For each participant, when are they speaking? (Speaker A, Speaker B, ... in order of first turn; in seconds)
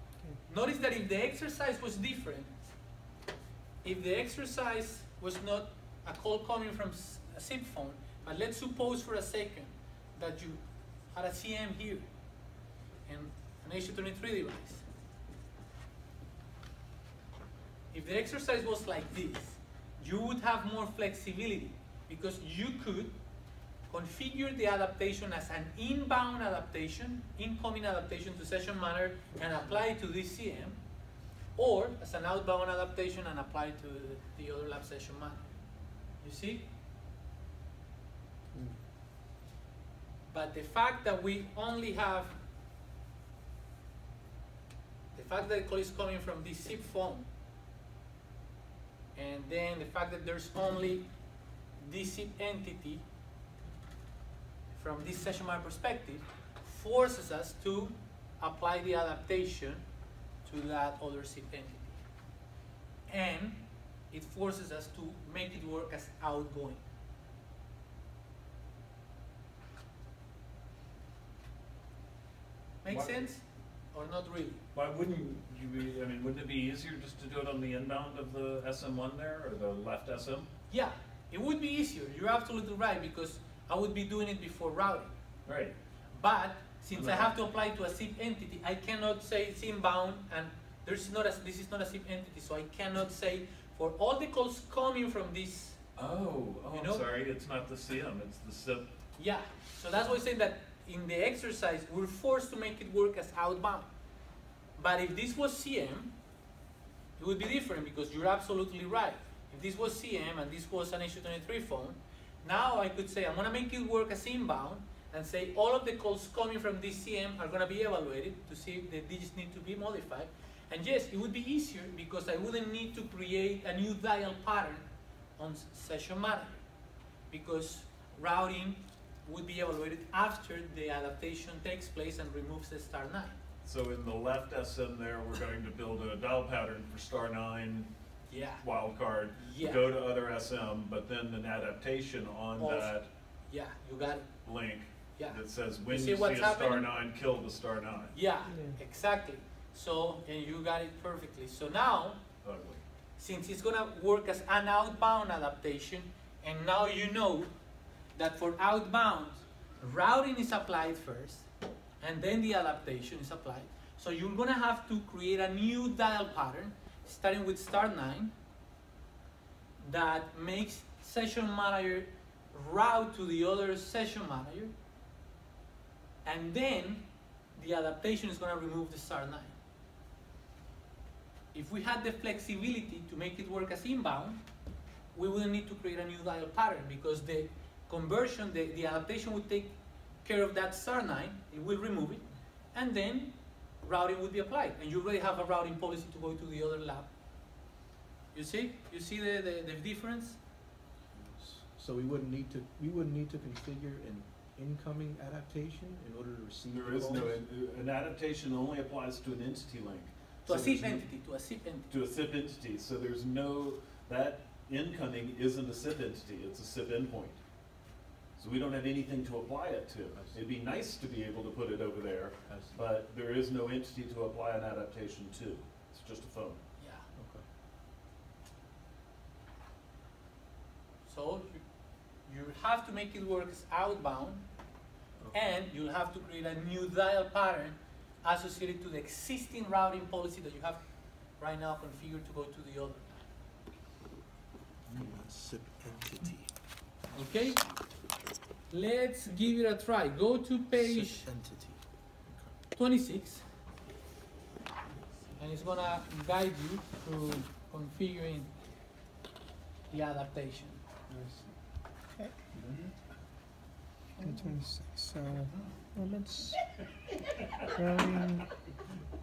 Speaker A: 0.4-2.5, 3.8-12.1, 13.1-14.8, 17.9-23.2, 23.9-30.8, 31.5-35.5, 36.2-36.7, 40.3-42.4, 45.1-47.3, 49.1-51.1, 51.8-53.0, 54.7-59.9, 60.4-62.0, 63.1-66.8, 72.8-74.6, 80.7-85.1, 86.1-95.8, 96.7-97.0, 99.2-103.9, 104.8-106.1, 107.2-124.8, 125.4-126.6, 127.3-133.4, 138.3-138.7, 139.3-139.8, 142.6-144.3, 145.2-146.9, 148.1-152.2, 153.2-157.5, 158.1-161.5, 162.0-168.3, 169.8-174.7, 176.2-179.6, 181.5-184.4, 185.1-197.1, 198.3-200.4, 210.4-211.9, 226.8-227.1, 231.1-231.7, 232.2-234.5, 235.3-243.2, 247.1-248.1, 248.7-251.3, 252.7-253.4, 255.4-258.5, 259.9-260.8
Speaker B: 72.9-73.3, 74.7-80.5, 85.5-85.8, 86.9-87.3, 96.0-98.9, 133.6-137.9, 138.6-143.1, 144.4-148.1, 152.4-152.8, 206.7-217.8, 218.3-226.6, 262.5-262.9
Speaker C: 148.5-148.8, 264.2-266.9, 267.7-268.7
Speaker D: 201.1-207.4, 220.1-220.4, 222.4-222.8, 227.1-227.4, 244.9-247.8, 250.7-252.5, 261.1-261.6